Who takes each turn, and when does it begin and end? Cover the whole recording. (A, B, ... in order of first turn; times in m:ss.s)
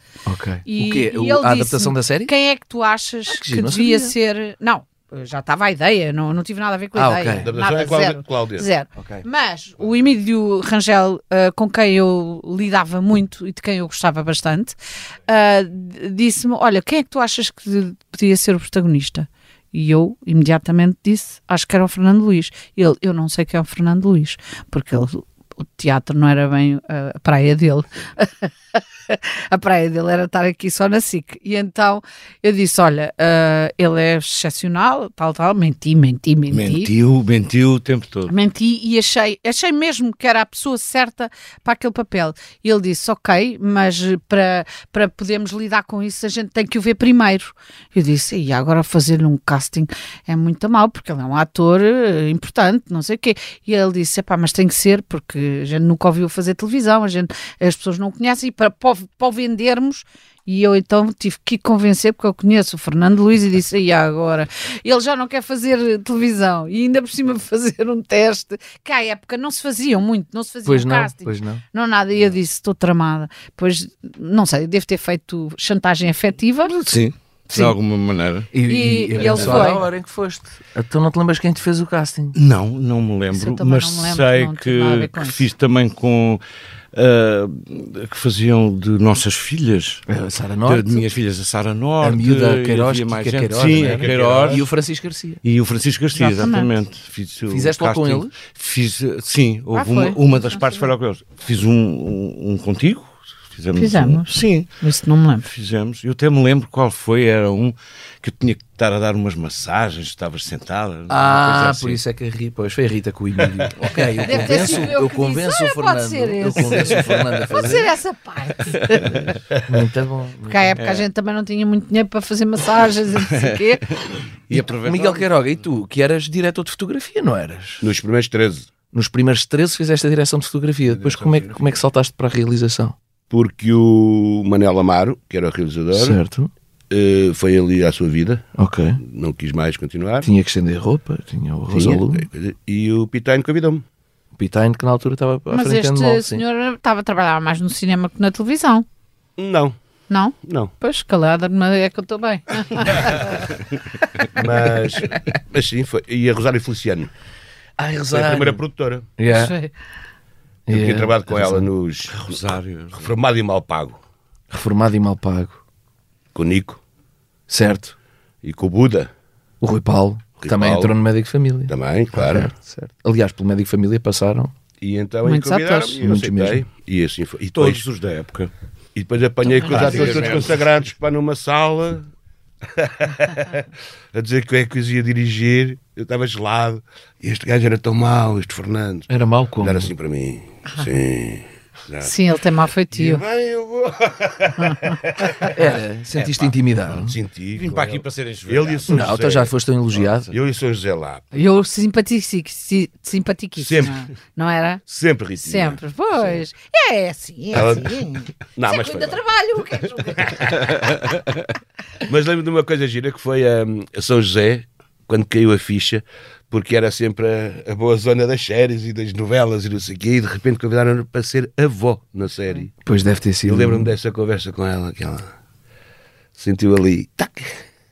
0:00.2-0:02.3 A
0:00.6-0:14.8 B
0:03.3-0:04.1 A
0:06.9-0:07.5 A
0:07.4-0:08.6 C
0:15.3-0:36.9 B
0:36.5-0:38.3 D
0:38.3-1:17.0 B
1:10.6-1:11.6 A
1:16.6-1:18.5 D
1:17.5-1:17.7 B
1:18.5-1:22.4 A
1:18.6-1:19.8 B
1:19.3-1:19.7 D
1:22.3-1:26.4 D
1:23.3-1:25.4 B
1:26.9-1:30.0 D
1:30.1-1:31.1 A
1:30.6-1:34.6 D
1:32.0-1:35.4 A
1:33.7-1:34.6 C
1:35.4-1:44.7 D
1:36.1-1:36.7 B
1:37.5-1:38.4 A
1:39.7-1:40.8 B
1:43.8-1:45.5 B
1:45.5-1:52.0 D
1:51.1-1:57.9 A
1:53.8-1:54.9 D
1:54.2-1:59.1 B
1:58.9-1:59.2 D
1:59.1-2:00.8 A
2:00.5-2:03.8 B
2:00.8-2:01.0 D
2:03.3-2:03.6 D
2:04.5-2:05.4 D
2:04.5-2:07.9 A
2:07.8-2:08.7 C
2:08.9-2:13.0 A
2:10.9-2:11.8 C
2:13.3-2:16.2 C
2:15.9-2:16.5 A
2:16.9-2:18.4 C
2:18.6-2:19.0 A
2:19.0-2:20.3 C
2:20.2-2:22.3 A
2:21.7-2:23.8 C
2:24.4-2:26.4 A
2:25.5-2:28.8 B
2:29.4-2:29.8 C
2:30.1-2:33.4 B
2:30.4-2:30.7 C
2:34.3-2:37.1 C
2:37.8-2:38.6 A
2:38.1-2:39.0 C
2:39.2-2:39.5 A
2:39.2-2:39.7 B
2:40.7-2:41.7 A
2:40.7-2:42.3 C
2:42.1-2:43.1 D
2:42.9-2:44.0 C
2:44.5-2:45.6 A
2:46.3-2:46.8 C
2:47.5-2:47.9 A
2:48.4-2:49.1 C
2:49.6-2:54.5 A
2:50.4-2:50.9 C
2:51.7-2:52.5 C
2:54.8-2:57.8 C
2:55.2-2:56.0 B
2:55.9-2:56.6 A
2:57.5-2:58.5 D
2:58.9-3:02.1 C
2:59.5-3:00.3 B
2:59.6-3:00.6 D
3:02.7-3:12.1 C
3:09.1-3:09.9 A
3:12.0-3:13.2 B
3:12.9-3:15.5 C
3:14.6-3:14.9 B
3:15.5-3:17.1 A
3:16.1-3:17.0 D
3:17.0-3:19.5 C
3:17.5-3:19.2 D
3:18.9-3:20.3 A
3:20.3-3:21.2 C
3:21.3-3:24.8 B
3:23.6-3:24.1 C
3:24.9-3:26.4 C
3:25.4-3:30.7 B
3:27.5-3:28.0 C
3:28.6-3:29.2 C
3:30.2-3:31.0 C
3:32.1-3:42.7 C
3:42.8-3:43.9 A
3:43.4-3:45.3 C
3:46.4-3:47.6 C